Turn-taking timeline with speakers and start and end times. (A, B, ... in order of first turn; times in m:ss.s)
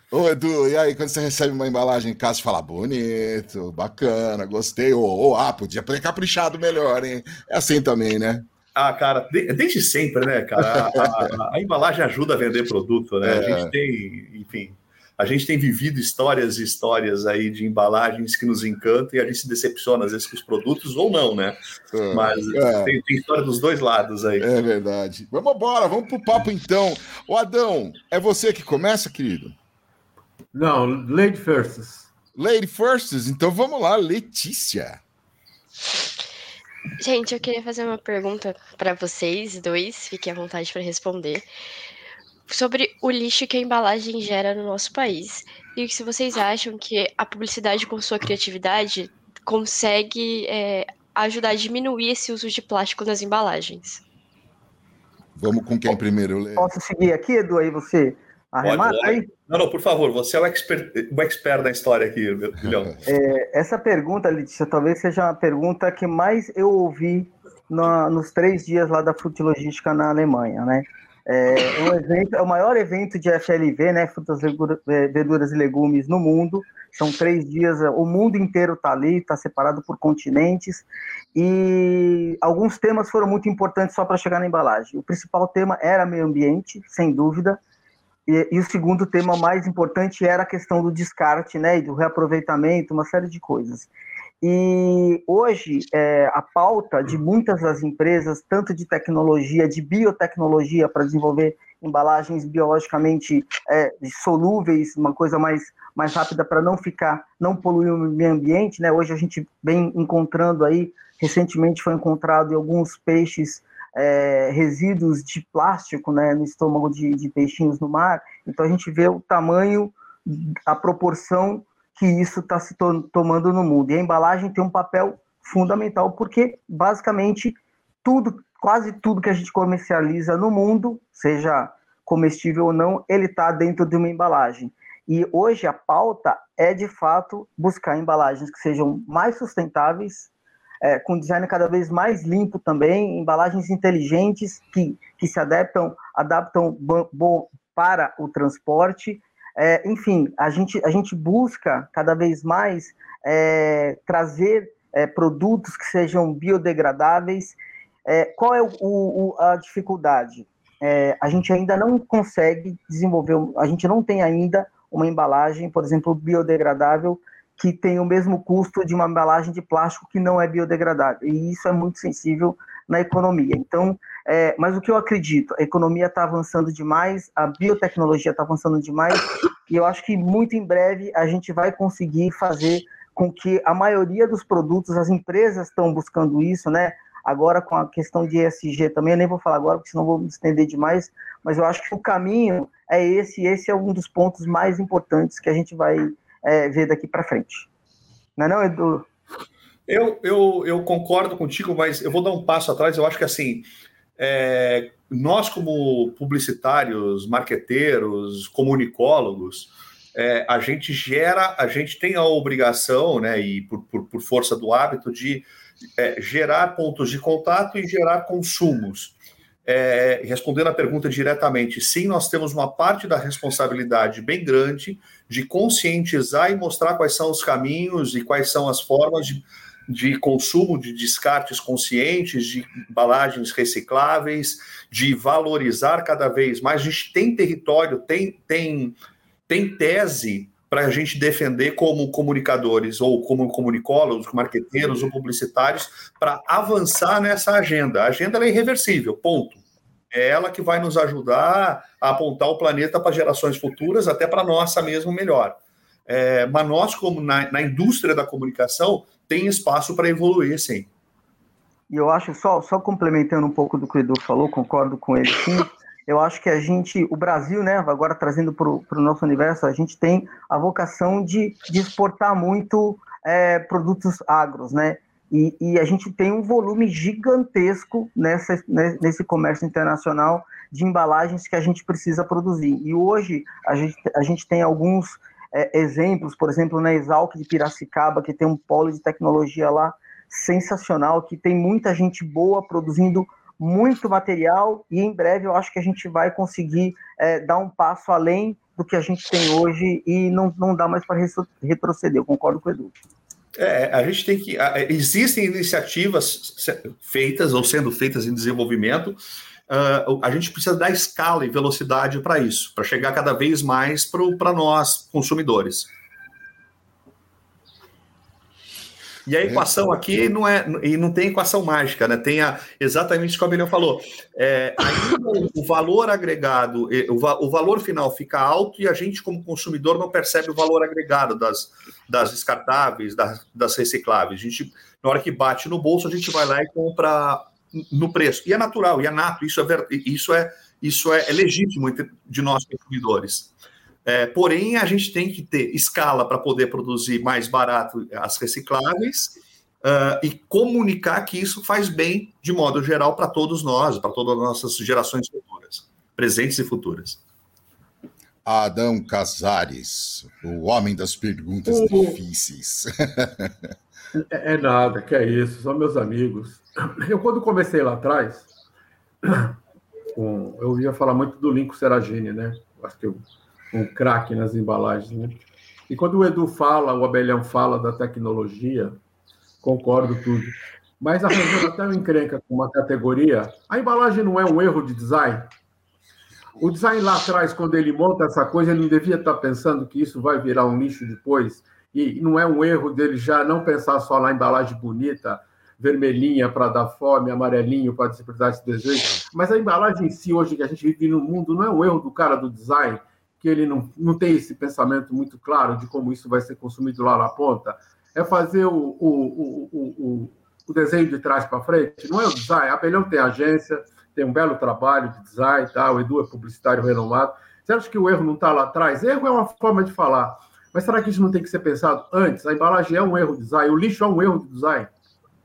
0:00.1-0:08.5 A
0:08.7-0:21.6 B
0:10.6-0:11.3 A
0:13.2-0:13.7 A
0:21.9-0:22.9 A
0:22.1-0:24.5 B
0:24.4-0:29.5 A
0:30.5-0:32.1 C
0:32.4-0:35.0 A
0:37.0-0:41.4 D
0:42.5-0:54.0 D
0:55.4-0:56.7 A
0:56.6-0:59.3 E
0:58.6-1:02.9 B
1:03.0-1:27.6 E
1:28.3-1:33.9 E
1:34.4-2:20.3 E
2:20.8-3:17.7 E
3:18.4-3:19.0 E
3:19.9-3:23.7 B
3:24.2-3:39.1 B
3:39.6-3:59.0 B
3:59.5-4:20.9 B
4:21.9-5:02.9 E
5:03.6-5:09.2 B
5:09.7-5:15.9 B
5:19.2-5:43.5 B
5:44.0-5:57.2 B
5:58.4-6:03.5 A
6:01.7-6:02.2 C
6:04.1-6:08.5 C
6:09.2-6:09.5 C
6:10.1-6:19.0 C
6:19.6-6:25.5 C
6:26.6-7:04.9 C